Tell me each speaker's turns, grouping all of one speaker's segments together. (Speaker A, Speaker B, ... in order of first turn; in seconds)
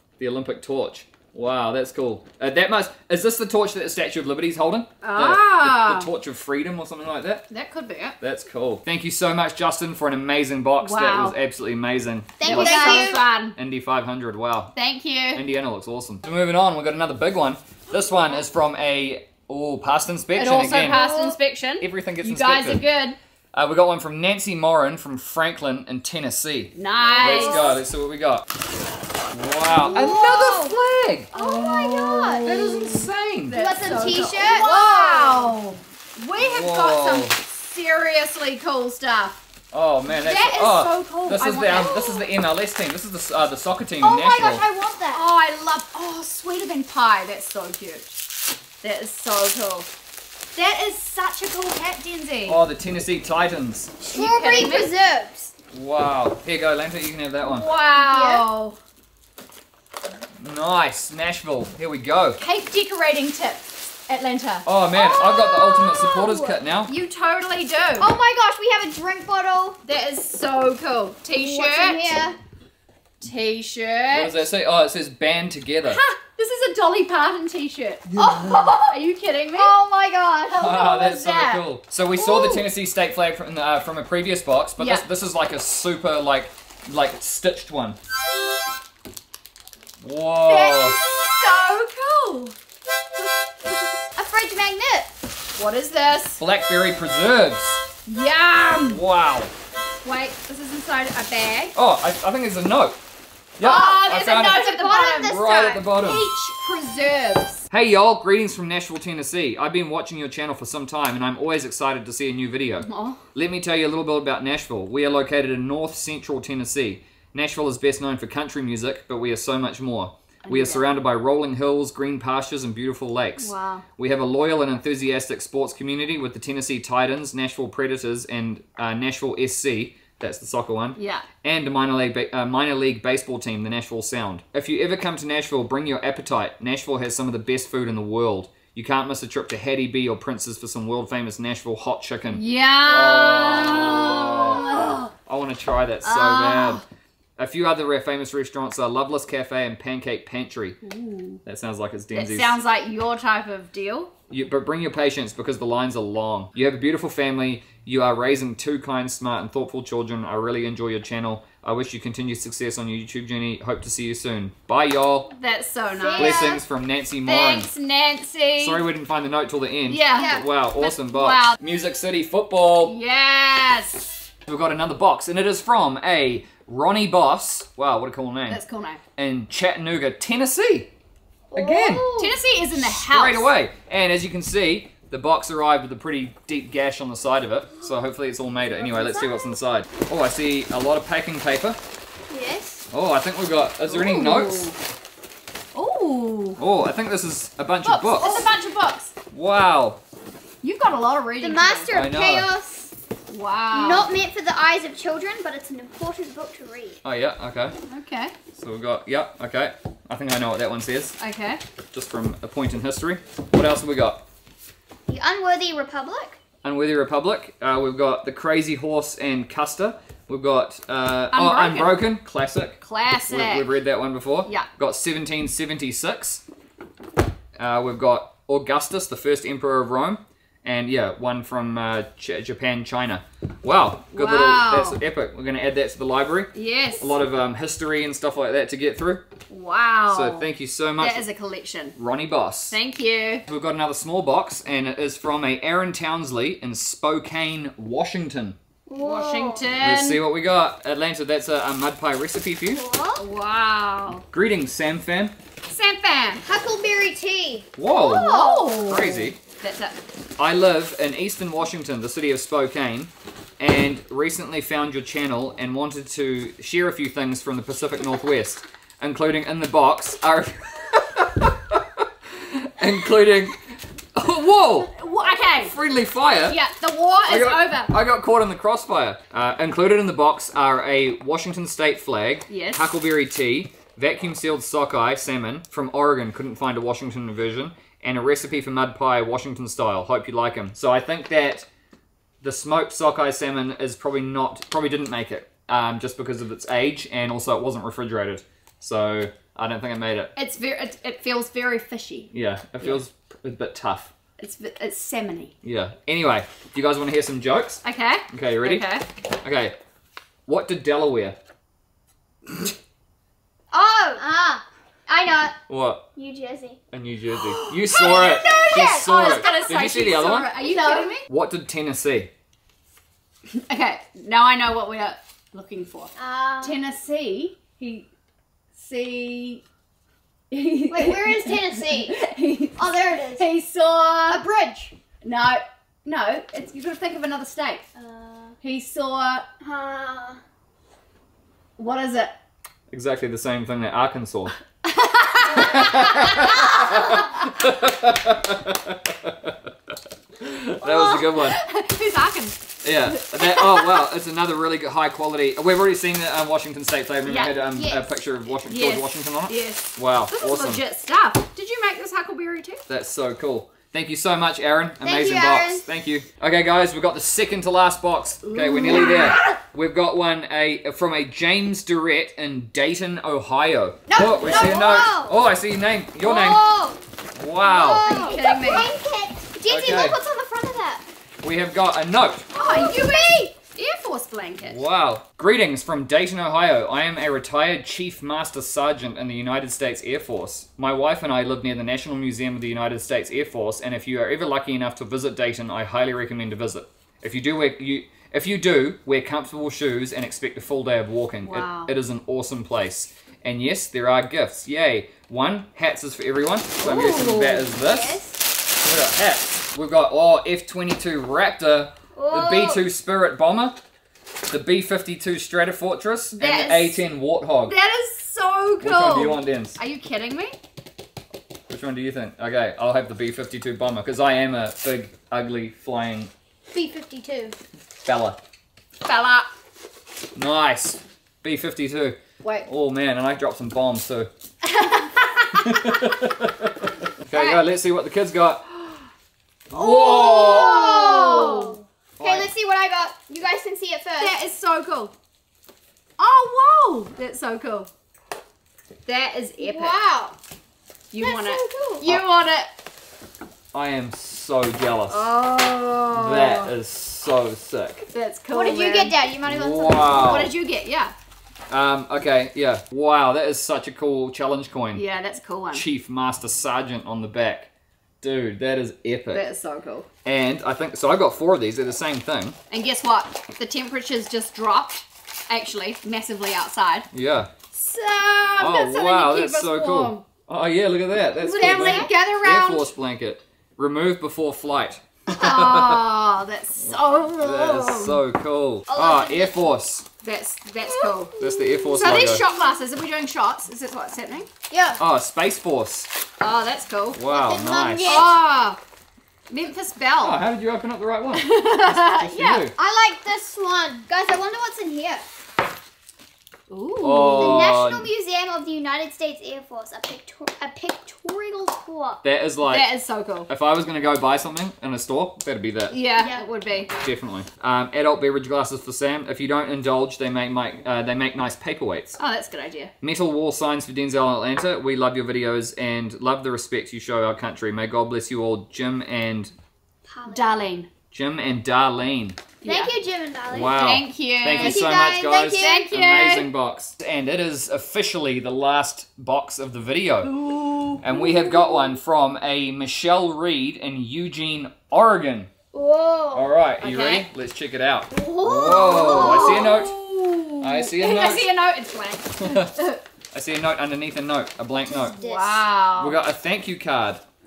Speaker A: 0.2-7.5, 8.2-14.7, 15.3-21.1, 21.8-22.9, 23.5-28.5, 29.3-31.3, 32.5-33.6, 36.4-37.4, 39.7-44.6, 52.5-53.9, 55.7-57.7, 60.4-62.4, 64.7-66.9, 74.1-76.0, 80.5-88.0, 90.0-91.0, 96.4-97.8, 98.9-99.5, 101.8-103.0, 103.6-106.3, 107.7-146.8, 147.4-150.8, 151.4-152.6, 154.3-165.3, 166.2-167.7, 168.6-173.0, 174.5-178.6, 179.2-180.9, 181.5-182.1, 182.8-191.8, 192.9-194.7, 196.6-198.5, 199.3-200.0, 201.9-202.5, 207.0-207.8, 208.5-211.2, 211.9-214.2, 216.6-226.4, 227.6-239.2, 240.1-241.3, 242.0-242.8, 243.5-248.6, 249.8-252.8, 254.3-255.4, 257.8-258.3, 258.9-259.4, 260.4-274.9, 275.5-276.6, 277.3-291.7, 292.4-300.3, 302.3-304.1, 305.6-308.9, 309.4-309.8, 310.5-311.4, 315.7-316.0, 316.9-320.6, 321.3-322.3, 342.9-344.6, 345.6-349.7, 350.4-351.6, 352.8-360.8, 362.9-376.6, 377.4-378.1, 379.7-380.2, 381.4-382.5, 384.7-413.8, 414.5-417.8, 418.8-419.8, 421.7-426.3, 428.0-428.4, 430.4-434.3, 435.5-439.0, 439.7-440.8, 442.2-442.5, 453.7-455.3, 456.1-458.0, 459.5-460.5, 461.7-465.1, 465.7-467.7, 468.2-469.4, 470.2-472.6, 477.1-477.5, 478.6-486.0, 486.8-490.1, 491.4-492.4, 495.0-496.1, 497.1-498.2, 500.2-502.7, 507.0-508.1, 512.2-512.9, 513.5-516.0, 517.0-522.2, 523.0-529.5, 531.1-532.4, 533.5-540.4, 541.0-545.5, 546.3-550.0, 550.6-551.5, 552.4-552.7, 553.3-555.1, 556.0-557.2
Speaker B: 5.0-6.1, 7.5-8.2, 10.8-11.4, 12.4-13.6, 14.8-15.4, 20.4-23.2, 26.8-27.8, 29.7-30.2, 31.3-39.4, 40.1-42.2, 45.1-48.2, 48.8-49.9, 50.5-52.6, 54.1-54.9, 57.4-58.8, 62.4-64.7, 66.9-68.1, 69.8-72.2, 73.2-74.4, 75.9-79.7, 80.5-81.7, 82.2-82.6, 84.8-85.1, 90.5-92.6, 95.6-96.4, 98.1-99.0, 100.0-101.8, 103.6-105.4, 106.0-107.7, 112.8-113.2, 120.5-120.9, 123.4-123.8, 131.0-131.3, 142.3-145.1, 146.0-146.8, 150.8-151.4, 152.1-154.1, 165.3-166.5, 167.3-168.8, 169.9-171.6, 172.8-174.2, 178.5-179.0, 182.2-183.5, 193.9-194.8, 195.7-196.6, 197.8-199.1, 200.6-201.9, 203.3-204.1, 207.9-208.3, 211.2-211.6, 221.3-222.1, 222.8-223.7, 234.1-235.0, 236.5-237.2, 239.5-242.0, 242.7-243.4, 249.0-250.2, 253.2-254.2, 255.7-256.4, 257.9-260.0, 274.9-275.8, 276.5-277.9, 282.5-282.9, 300.4-303.0, 304.4-305.5, 307.8-309.1, 317.3-321.2, 323.5-328.1, 328.8-329.6, 330.5-334.4, 335.2-337.9, 338.6-339.5, 341.8-342.3, 344.8-347.2, 350.8-353.9, 357.2-358.0, 358.6-362.9, 368.4-369.5, 378.0-378.9, 382.5-384.8, 401.4-401.9, 406.8-407.7, 416.4-417.0, 417.7-420.6, 429.1-429.5, 432.4-432.7, 434.6-436.0, 437.3-437.6, 440.0-441.8, 444.2-445.1, 446.2-447.9, 449.1-450.0, 451.1-452.7, 455.1-456.7, 458.1-459.2, 460.2-461.1, 464.9-465.9, 469.3-470.1, 472.7-477.1, 477.7-480.2, 481.5-482.9, 485.3-488.2, 490.2-491.3, 491.9-494.5, 496.4-497.2, 498.1-498.8, 499.5-500.4, 501.3-502.7, 506.7-507.7, 512.7-513.5, 515.9-516.9, 522.2-522.9, 530.3-530.9, 532.6-532.9, 533.7-534.9, 535.6-536.5, 540.2-541.0, 546.8-547.3, 548.5-553.0, 555.2-556.2
Speaker C: 12.4-13.2, 20.8-21.4, 27.1-27.8, 29.8-30.8, 31.3-32.8, 33.5-35.5, 44.0-45.3, 54.0-55.5, 58.0-58.5, 64.9-66.6, 68.0-69.8, 71.3-72.4, 78.2-79.0, 79.5-80.7, 94.2-95.1, 103.6-105.8, 165.9-166.6, 170.1-170.5, 181.5-182.4, 192.3-192.8, 201.4-202.9, 203.7-207.0, 215.1-216.4, 248.9-249.7, 252.7-253.2, 256.4-258.8, 313.7-315.6, 316.2-316.8, 317.9-319.8, 320.6-321.1, 326.2-326.8, 330.9-332.2, 332.8-333.5, 334.3-334.9, 337.9-338.6, 339.6-340.4, 345.7-347.1, 365.0-365.8, 369.0-369.3, 374.1-375.4, 376.2-377.0, 377.6-381.0, 382.6-383.5, 407.7-408.4, 412.2-412.8, 426.7-427.6, 439.7-444.4, 449.6-450.4, 451.2-452.1, 458.5-460.3, 481.4-482.1, 488.9-489.7, 490.8-492.7, 494.7-495.0, 497.3-498.4, 502.8-505.2, 507.4-512.2, 516.2-516.4, 530.1-530.6, 532.6-533.8, 534.6-535.8, 541.1-542.0, 545.7-546.5, 548.1-549.8, 554.9-555.6